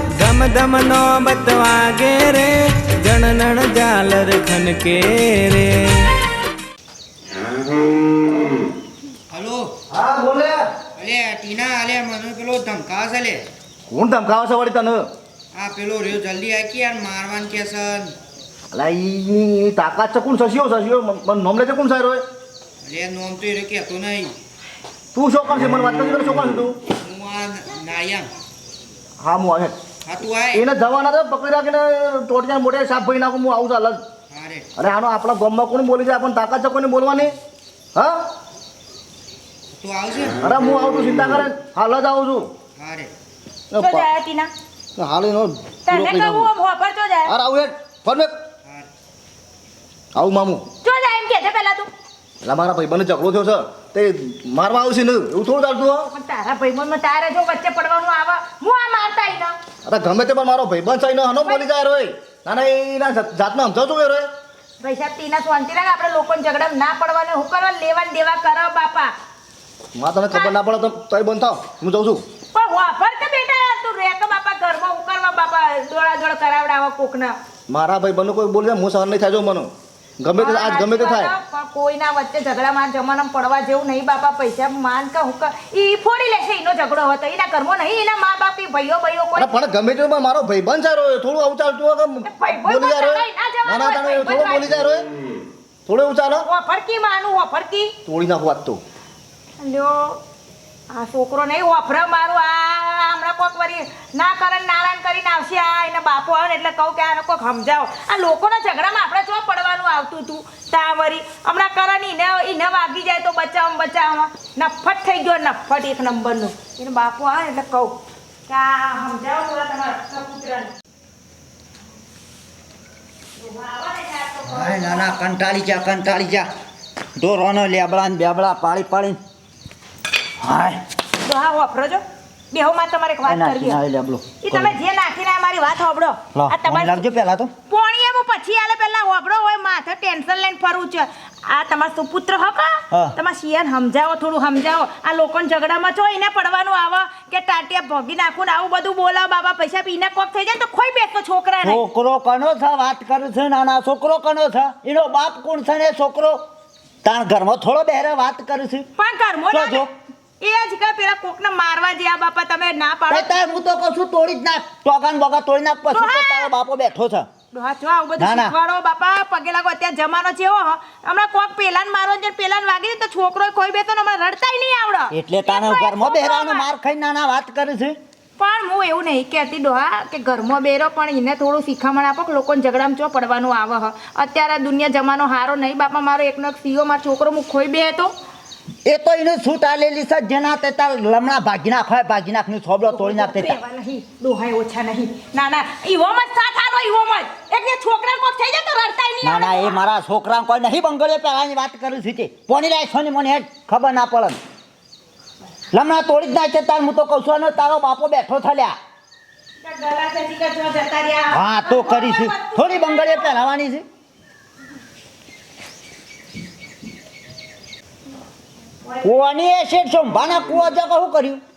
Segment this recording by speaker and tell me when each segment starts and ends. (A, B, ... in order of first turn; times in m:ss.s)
0:00.2-0:06.0 A
0:09.3-0:09.7 B
0:09.9-0:10.6 C
0:11.0-0:13.4 B
0:13.9-0:15.0 C
0:15.5-0:18.1 B
0:18.7-0:22.2 C
0:22.8-0:24.3 B
0:25.1-0:26.8 C
0:27.0-0:28.3 B
0:29.2-0:29.8 C
0:30.0-0:30.6 B
0:30.5-0:34.0 C
0:34.3-0:34.7 B
0:34.8-0:37.3 C
0:37.9-0:38.2 C
0:39.8-0:40.4 B
0:40.4-0:42.5 C
0:42.8-0:43.1 B
0:43.7-0:44.0 C
0:43.8-0:44.5 D
0:45.0-0:46.5 C
0:45.8-0:47.3 D
0:47.3-0:48.3 C
0:50.1-0:50.6 C
0:50.8-0:51.9 D
0:52.4-0:56.1 C
0:56.1-0:59.6 D
0:59.8-1:04.2 C
1:01.3-1:01.6 D
1:04.8-1:09.1 D
1:10.0-1:12.2 C
1:12.5-1:17.4 D
1:17.7-1:21.3 C
1:20.4-1:29.5 D
1:29.3-1:35.1 C
1:32.2-1:34.6 D
1:35.8-1:36.4 C
1:36.4-1:37.9 D
1:38.0-1:38.8 C
1:39.6-1:40.2 D
1:40.9-2:00.7 D
2:03.4-2:05.2 D
2:04.4-2:06.5 E
2:07.2-2:09.2 E
2:10.4-2:10.8 E
2:11.2-2:13.8 D
2:13.2-2:14.8 E
2:14.4-2:17.0 D
2:16.3-2:17.5 E
2:17.7-2:31.8 D
2:31.6-2:36.4 E
2:37.0-2:38.9 E
2:39.0-2:39.9 D
2:39.5-2:39.9 E
2:40.4-2:43.3 D
2:43.1-2:47.2 E
2:45.9-2:46.5 D
2:47.5-2:56.6 D
2:48.2-2:48.5 E
2:55.1-2:58.0 E
2:58.4-3:08.1 D
3:08.8-3:13.6 E
3:12.9-3:19.8 D
3:19.2-3:24.4 E
3:25.7-3:28.7 E
3:29.6-3:33.4 D
3:31.3-3:33.8 E
3:39.0-3:41.4 E